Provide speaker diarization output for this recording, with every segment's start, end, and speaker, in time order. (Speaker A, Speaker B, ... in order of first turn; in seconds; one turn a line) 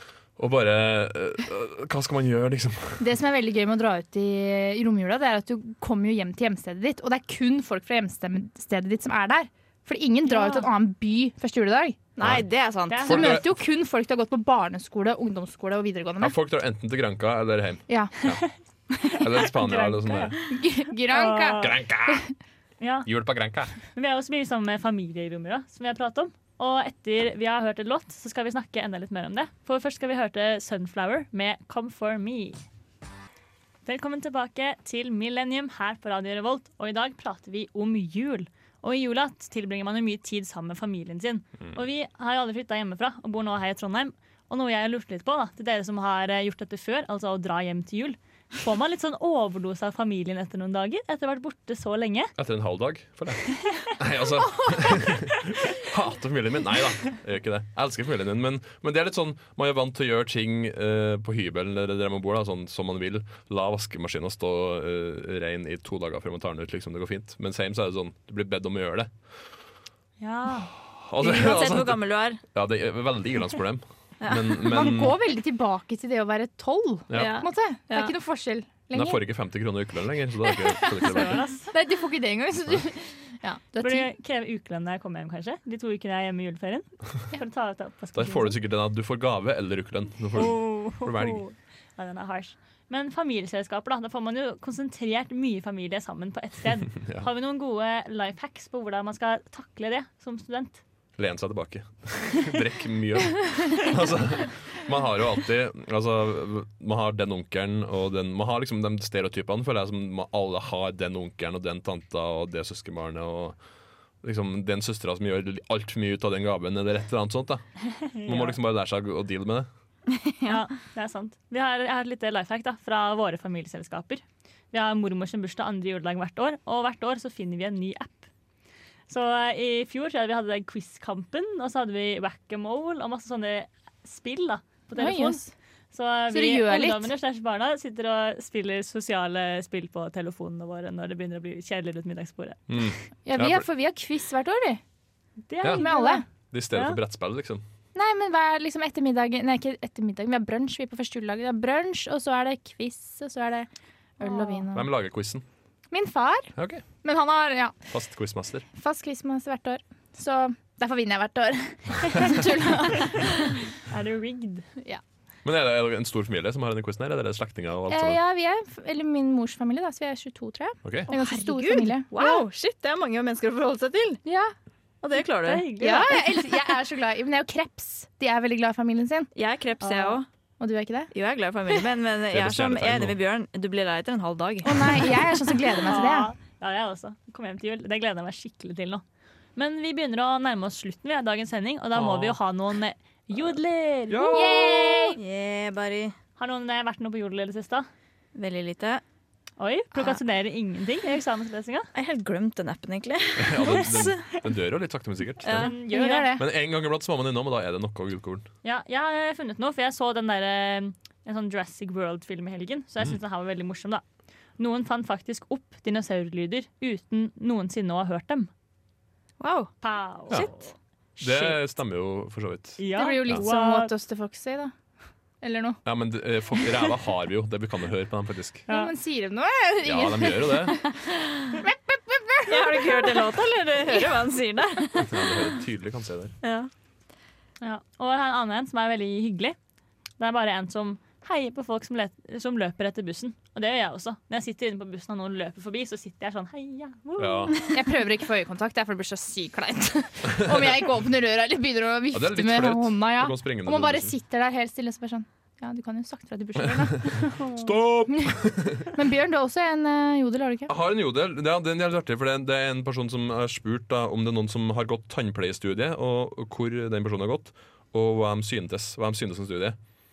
Speaker A: 0.4-3.0
Speaker B: 3.0-12.0
Speaker C: 10.3-10.7
Speaker D: 12.2-13.3
Speaker A: 12.2-12.5
Speaker C: 12.9-13.3
Speaker A: 13.0-13.6
Speaker B: 13.1-16.3
Speaker A: 16.2-18.4
Speaker B: 17.9-18.2
Speaker B: 18.9-19.2
Speaker A: 19.1-20.4
Speaker C: 19.1-20.4
Speaker B: 20.5-22.2
Speaker C: 21.1-21.7
Speaker A: 21.6-22.3
Speaker C: 22.8-23.1
Speaker A: 23.0-23.8
Speaker C: 23.9-32.6
Speaker C: 33.8-52.3
Speaker A: 52.4-69.1
Speaker C: 70.2-70.7
Speaker A: 70.8-75.2
Speaker D: 71.2-72.4
Speaker D: 74.2-74.9
Speaker B: 74.6-79.2
Speaker A: 77.1-77.4
Speaker D: 77.1-78.1
Speaker A: 78.9-81.4
Speaker B: 80.4-84.1
Speaker C: 81.0-81.7
Speaker C: 83.8-88.6
Speaker A: 88.1-91.4
Speaker C: 90.3-100.8
Speaker A: 101.2-113.6
Speaker A: 114.2-117.6
Speaker C: 117.9-118.6
Speaker A: 118.2-119.7
Speaker D: 120.1-120.6
Speaker C: 120.4-128.3
Speaker C: 129.1-142.6
Speaker B: 134.9-135.4
Speaker B: 136.3-137.1
Speaker A: 142.7-143.7
Speaker B: 143.2-144.8
Speaker C: 145.5-147.0
Speaker B: 145.8-146.2
Speaker A: 146.5-147.6
Speaker B: 147.9-153.7
Speaker B: 154.2-154.9
Speaker C: 154.2-154.7
Speaker A: 154.7-155.4
Speaker B: 155.9-156.5
Speaker A: 156.6-156.8
Speaker B: 157.0-157.8
Speaker A: 157.9-158.7
Speaker B: 158.8-163.6
Speaker C: 162.9-164.7
Speaker A: 165.4-168.2
Speaker B: 167.9-172.4
Speaker A: 170.8-171.1
Speaker D: 171.1-174.2
Speaker B: 174.2-174.5
Speaker D: 175.0-176.1
Speaker C: 175.4-176.2
Speaker B: 175.8-179.3
Speaker D: 179.3-180.2
Speaker C: 179.8-180.2
Speaker B: 180.6-181.1
Speaker D: 181.1-185.1
Speaker A: 182.3-183.1
Speaker B: 184.6-186.3
Speaker C: 185.8-189.0
Speaker C: 189.5-194.9
Speaker A: 191.9-192.4
Speaker A: 194.1-194.8
Speaker B: 194.3-195.2
Speaker D: 194.5-196.1
Speaker C: 196.4-197.9
Speaker D: 198.3-199.0
Speaker C: 199.6-201.9
Speaker D: 201.9-204.3
Speaker A: 203.4-205.7
Speaker D: 205.4-205.7
Speaker C: 205.5-206.3
Speaker B: 205.9-206.4
Speaker A: 206.4-208.4
Speaker C: 208.6-214.0
Speaker C: 214.6-218.5
Speaker D: 219.4-219.7
Speaker C: 219.8-221.6
Speaker A: 221.2-223.4
Speaker C: 222.8-223.9
Speaker B: 222.9-224.7
Speaker B: 225.4-225.8
Speaker A: 225.8-228.7
Speaker B: 228.7-230.9
Speaker A: 229.8-230.8
Speaker D: 231.2-231.6
Speaker B: 231.6-233.4
Speaker D: 232.5-235.2
Speaker A: 235.0-236.3
Speaker D: 236.4-236.7
Speaker C: 237.6-239.6
Speaker C: 240.2-247.7
Speaker A: 247.2-247.7
Speaker B: 247.7-257.4
Speaker A: 252.1-254.1
Speaker A: 257.3-258.9
Speaker B: 258.9-260.7
Speaker A: 260.7-269.8